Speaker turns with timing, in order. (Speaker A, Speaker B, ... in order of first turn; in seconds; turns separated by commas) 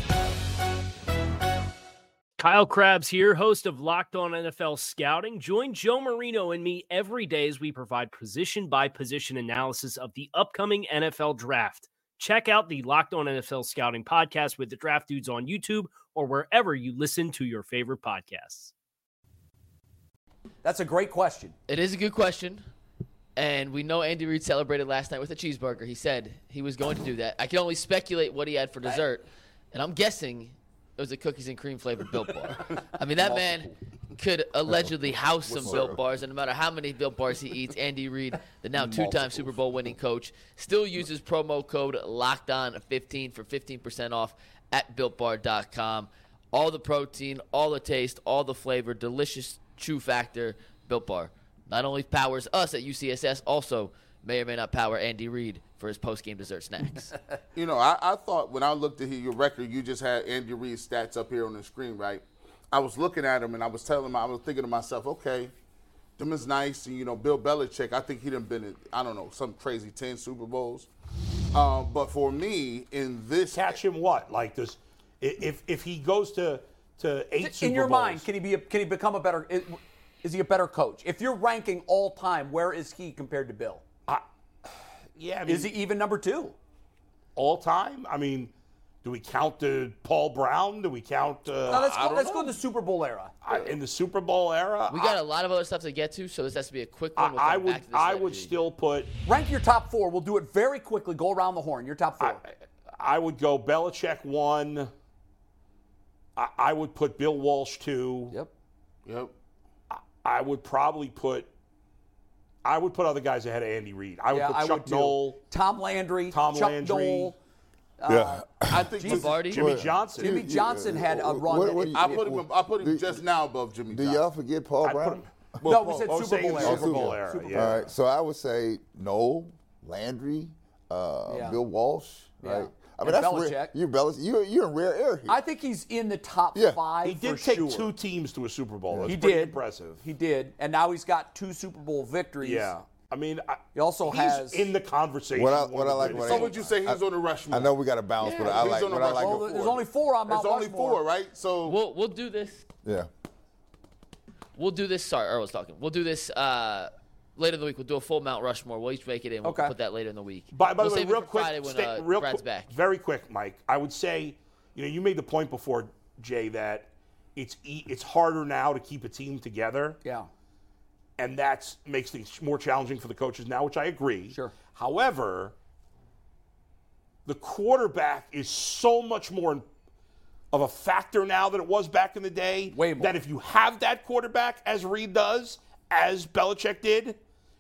Speaker A: 2.4-18.7, Speaker B: 20.6-21.6, Speaker C: 21.7-22.6, Speaker C: 23.4-57.1, Speaker D: 33.2-33.6, Speaker E: 35.5-36.0, Speaker E: 38.8-39.1, Speaker D: 57.5-65.5, Speaker D: 66.2-70.9, Speaker D: 71.5-73.8, Speaker F: 73.5-78.2, Speaker B: 77.4-83.8, Speaker F: 85.2-85.7, Speaker B: 85.5-86.6, Speaker F: 87.4-88.5, Speaker F: 89.0-92.3, Speaker B: 91.7-93.3, Speaker D: 91.7-92.5, Speaker F: 93.4-95.2, Speaker C: 94.9-98.6, Speaker F: 97.2-99.1, Speaker B: 99.3-102.4, Speaker F: 102.2-104.9, Speaker F: 106.4-108.3, Speaker D: 109.1-109.3, Speaker F: 109.9-111.5, Speaker F: 112.6-115.4, Speaker B: 114.3-117.4, Speaker F: 116.3-117.3, Speaker B: 118.0-119.3, Speaker E: 118.1-118.9, Speaker D: 118.7-119.5, Speaker C: 119.0-119.7, Speaker F: 119.5-120.3, Speaker E: 119.5-123.2, Speaker B: 120.2-122.2, Speaker D: 121.9-124.2, Speaker E: 123.9-125.7, Speaker F: 124.8-125.3, Speaker D: 125.6-126.8, Speaker B: 125.6-127.9, Speaker F: 126.1-127.9, Speaker E: 126.6-135.4, Speaker B: 131.3-131.6, Speaker B: 132.4-133.8, Speaker B: 135.3-137.9, Speaker F: 137.0-140.0, Speaker E: 138.9-139.2, Speaker B: 139.1-142.7, Speaker F: 142.4-146.5, Speaker B: 143.8-144.7, Speaker E: 145.3-149.5, Speaker D: 146.1-151.8, Speaker B: 148.2-151.0, Speaker C: 151.7-152.6, Speaker C: 154.6-162.7, Speaker B: 159.4-159.7, Speaker F: 160.5-170.0, Speaker B: 170.0-170.3, Speaker F: 171.2-175.5, Speaker F: 177.3-179.7, Speaker F: 180.5-187.2, Speaker B: 182.7-183.2